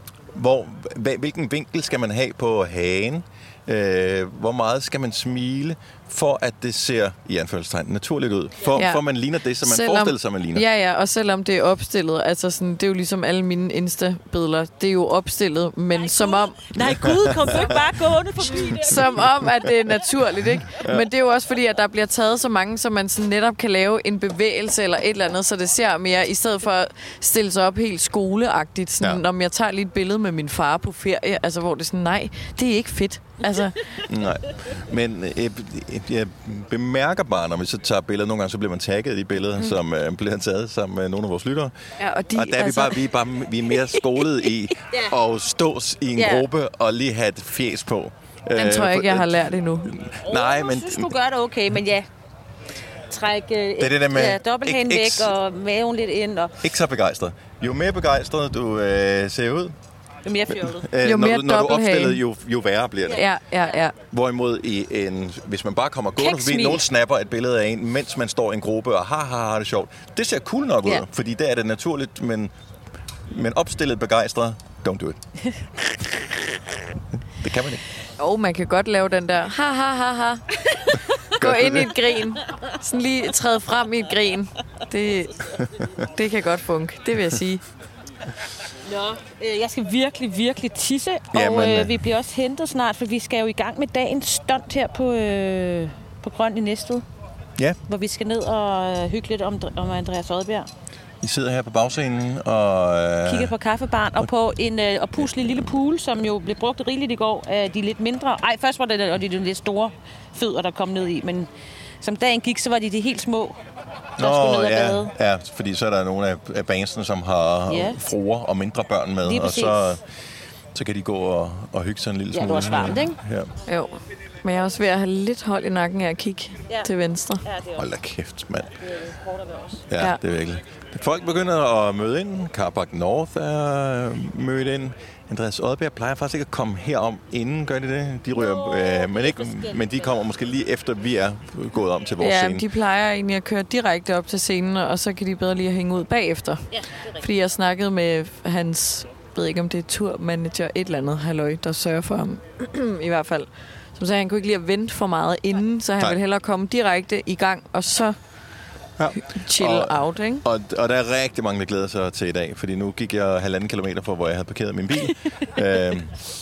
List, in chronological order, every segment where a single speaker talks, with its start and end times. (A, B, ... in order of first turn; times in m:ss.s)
0:00.3-0:10.7 A
0:08.8-0:09.0 B
0:09.6-0:16.8 B
0:16.0-0:19.3 C
0:17.2-0:17.8 A
0:18.8-0:33.8 B
0:20.7-0:21.1 A
0:34.1-0:41.7 A
0:42.0-0:43.0 B
0:42.3-0:51.1 A
0:46.2-0:46.5 C
0:48.6-0:49.9 B
0:50.2-0:52.1 C
0:53.1-0:56.7 C
0:53.8-0:55.4 A
0:56.6-0:59.8 A
1:00.2-1:00.9 C
1:00.7-1:03.2 A
1:01.0-1:02.2 B
1:03.1-1:03.9 B
1:04.1-1:12.5 A
1:06.2-1:06.8 C
1:13.3-1:15.2 A
1:16.0-1:16.4 A
1:17.4-1:17.8 A
1:18.2-1:20.4 B
1:20.7-1:21.0 C
1:21.4-1:25.5 B
1:21.4-1:22.0 A
1:26.0-1:27.6 B
1:28.9-1:37.0 C
1:31.3-1:32.0 A
1:37.9-1:40.7 C
1:41.2-1:43.6 A
1:43.2-1:51.5 C
1:52.0-1:53.6 C
1:54.2-1:55.1 C
1:54.2-2:00.0 A
1:57.7-1:58.0 C
1:59.2-2:00.0 C
2:00.7-2:03.5 A
2:02.3-2:03.2 C
2:03.7-2:07.5 B
2:07.4-2:07.8 C
2:07.7-2:08.8 A
2:08.8-2:09.9 C
2:09.9-2:22.7 A
2:18.4-2:20.0 C
2:22.2-2:38.2 B
2:26.7-2:27.2 C
2:39.0-2:46.2 A
2:39.2-2:40.4 B